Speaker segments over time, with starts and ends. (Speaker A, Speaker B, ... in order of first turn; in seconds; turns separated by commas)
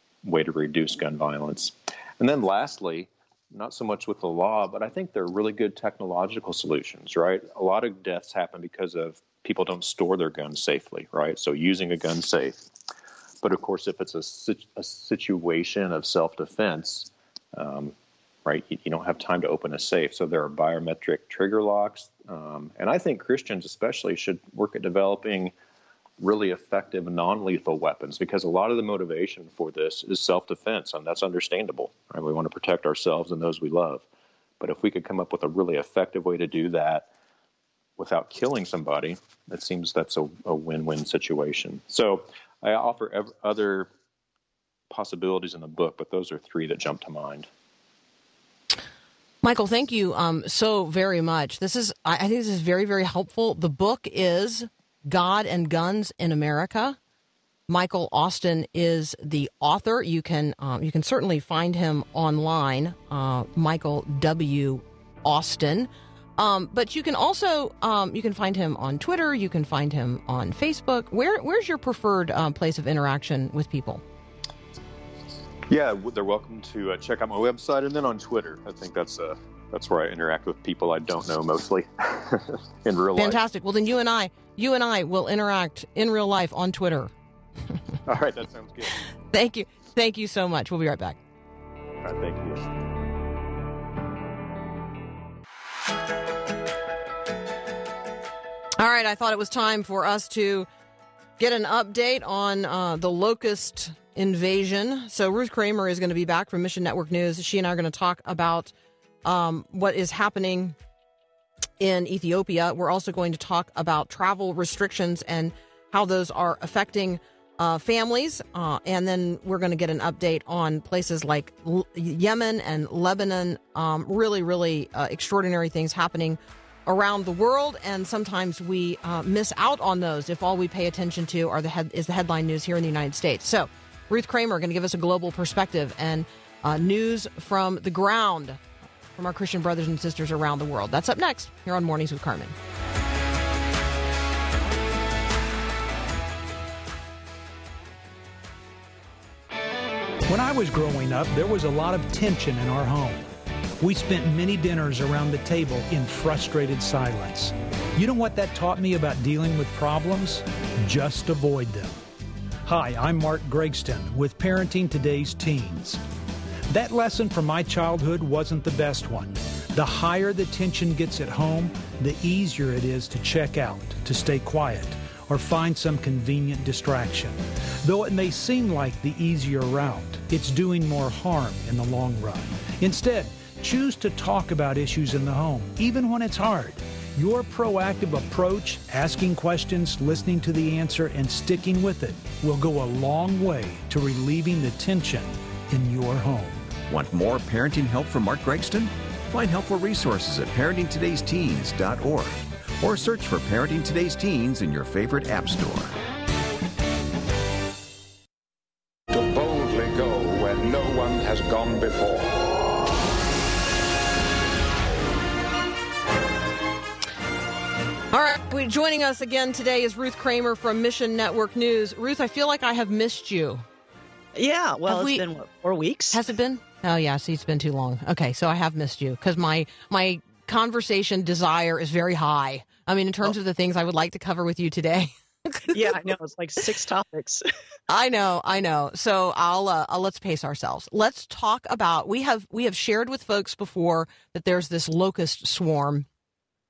Speaker A: 0.2-12.6, Speaker A: 13.4-25.5, Speaker A: 26.2-34.0, Speaker A: 34.6-37.1, Speaker A: 38.0-43.9, Speaker A: 44.9-47.5, Speaker B: 49.4-57.0, Speaker B: 57.7-74.0, Speaker A: 75.7-83.4, Speaker B: 83.2-87.1, Speaker A: 88.1-89.0, Speaker B: 89.3-91.2, Speaker A: 92.0-92.7, Speaker B: 98.8-100.7, Speaker B: 101.4-108.7, Speaker B: 109.2-110.8, Speaker B: 111.8-138.6, Speaker B: 139.2-142.5, Speaker C: 150.2-153.3, Speaker C: 153.8-162.0, Speaker C: 162.6-166.0, Speaker C: 166.7-196.7, Speaker D: 196.9-205.9, Speaker E: 209.1-212.4, Speaker B: 218.1-223.6, Speaker F: 224.3-226.2, Speaker B: 224.9-225.2, Speaker B: 226.1-236.1, Speaker F: 235.7-237.4, Speaker B: 237.9-246.1